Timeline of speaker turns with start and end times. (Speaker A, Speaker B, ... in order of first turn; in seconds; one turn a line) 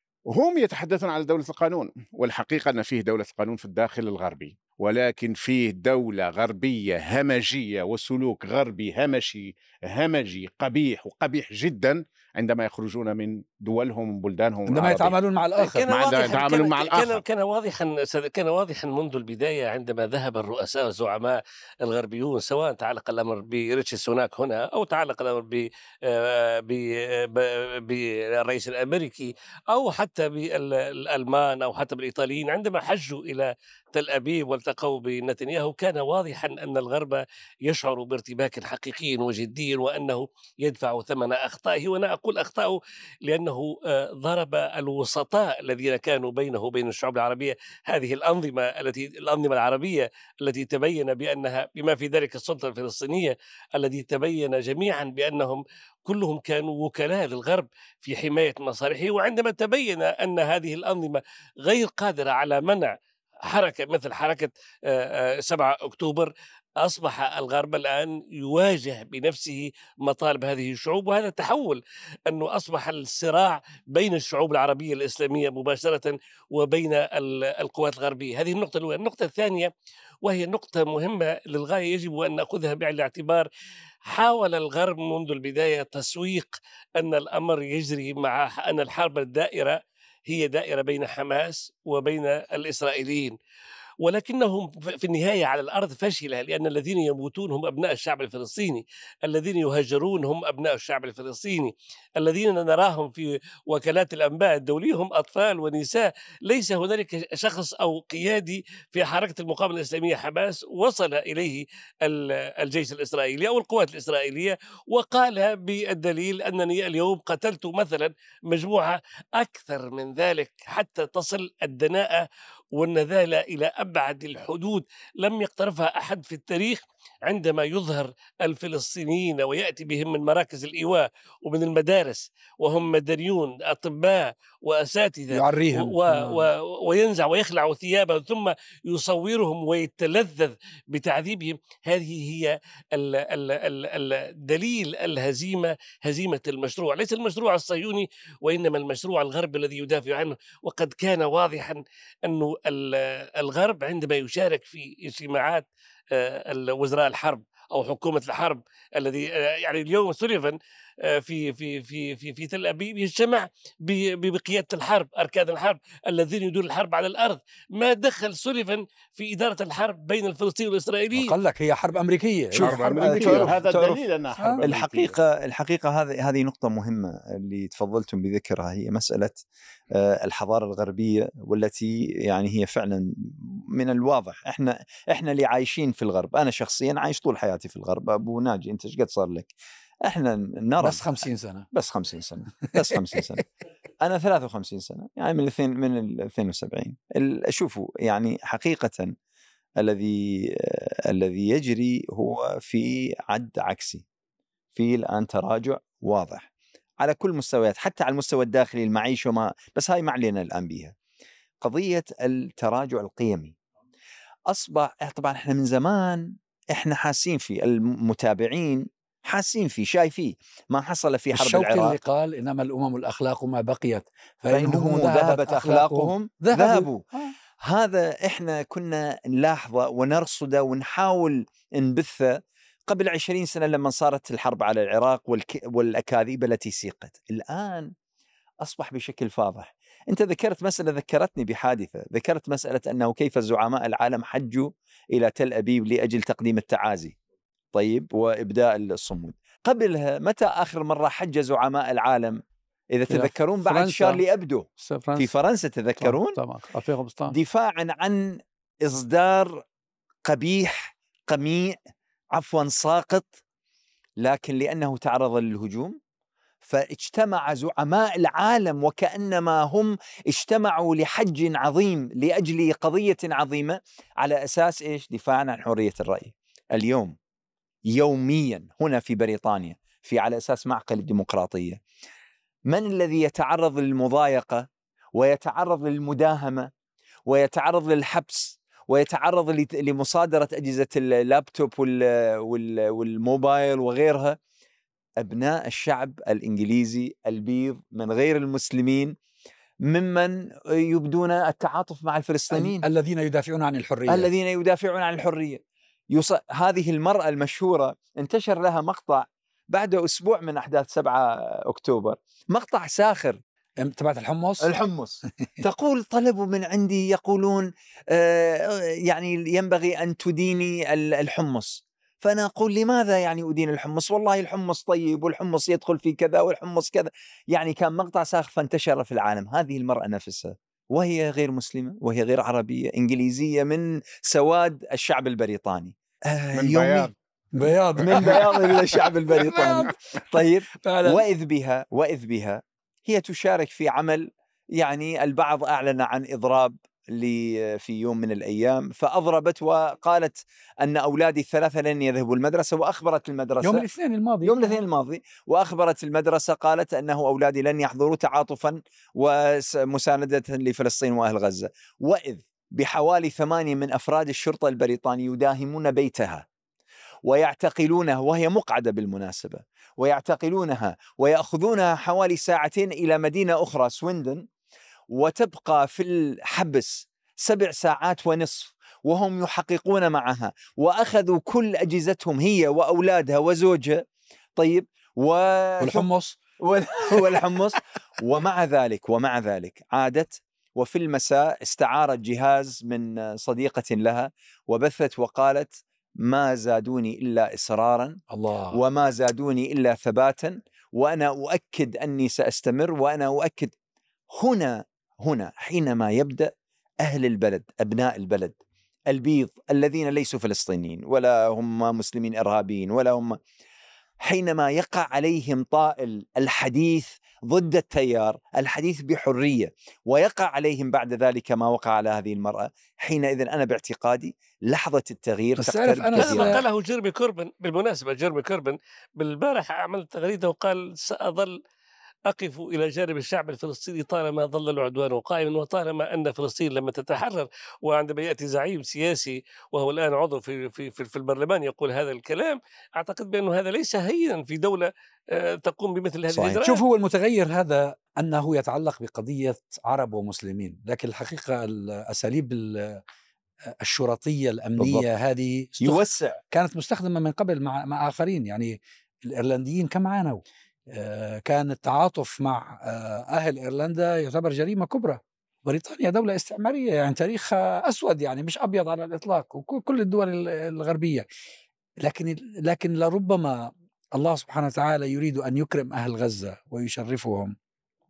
Speaker A: 0.3-15.2
Speaker B: 14.7-15.9
Speaker C: 15.6-79.7
Speaker A: 15.9-17.2
Speaker C: 80.2-83.5
Speaker C: 84.0-93.3
Speaker C: 94.0-171.3
Speaker B: 135.3-136.4
Speaker B: 171.2-173.6
Speaker A: 172.6-175.2
Speaker D: 172.6-174.0
Speaker B: 174.4-174.6
Speaker D: 174.6-189.5
Speaker D: 190.0-191.0
Speaker B: 190.8-191.7
Speaker D: 191.7-193.4
Speaker D: 194.0-199.1
Speaker D: 199.8-204.0
Speaker D: 204.7-206.5
Speaker D: 207.0-210.9
Speaker D: 211.6-213.6
Speaker D: 214.5-222.0
Speaker B: 221.3-227.3
Speaker D: 224.5-227.0
Speaker D: 227.6-237.9
Speaker D: 238.6-247.2
Speaker D: 247.7-256.4
Speaker E: 253.1-254.2
Speaker E: 254.8-255.3
Speaker E: 256.0-257.4
Speaker D: 257.3-259.6
Speaker D: 260.2-261.8
Speaker D: 262.3-263.4
Speaker D: 264.2-266.0
Speaker D: 266.6-277.2
Speaker D: 277.9-281.8
Speaker D: 282.7-286.7
Speaker D: 287.3-294.4
Speaker D: 295.2-299.1
Speaker D: 299.8-302.8
Speaker B: 302.5-304.3
Speaker D: 304.1-313.4
Speaker B: 313.8-314.7
Speaker D: 314.6-337.1
Speaker A: 336.5-337.1
Speaker B: 337.5-341.2
Speaker D: 338.0-353.8
Speaker A: 338.1-338.4
Speaker B: 353.6-354.8
Speaker D: 354.4-366.4
Speaker D: 367.2-374.4
Speaker D: 375.1-386.1
Speaker B: 385.8-386.4
Speaker D: 386.6-398.2
Speaker B: 398.3-398.8
Speaker D: 398.7-403.7
Speaker D: 404.3-413.4
Speaker D: 414.2-426.6
Speaker B: 425.6-426.6
Speaker C: 426.2-431.6
Speaker C: 432.3-446.8
Speaker D: 446.3-446.6
Speaker B: 446.6-453.0
Speaker B: 453.8-471.2
Speaker D: 454.8-455.1
Speaker D: 455.8-456.4
Speaker B: 472.0-477.6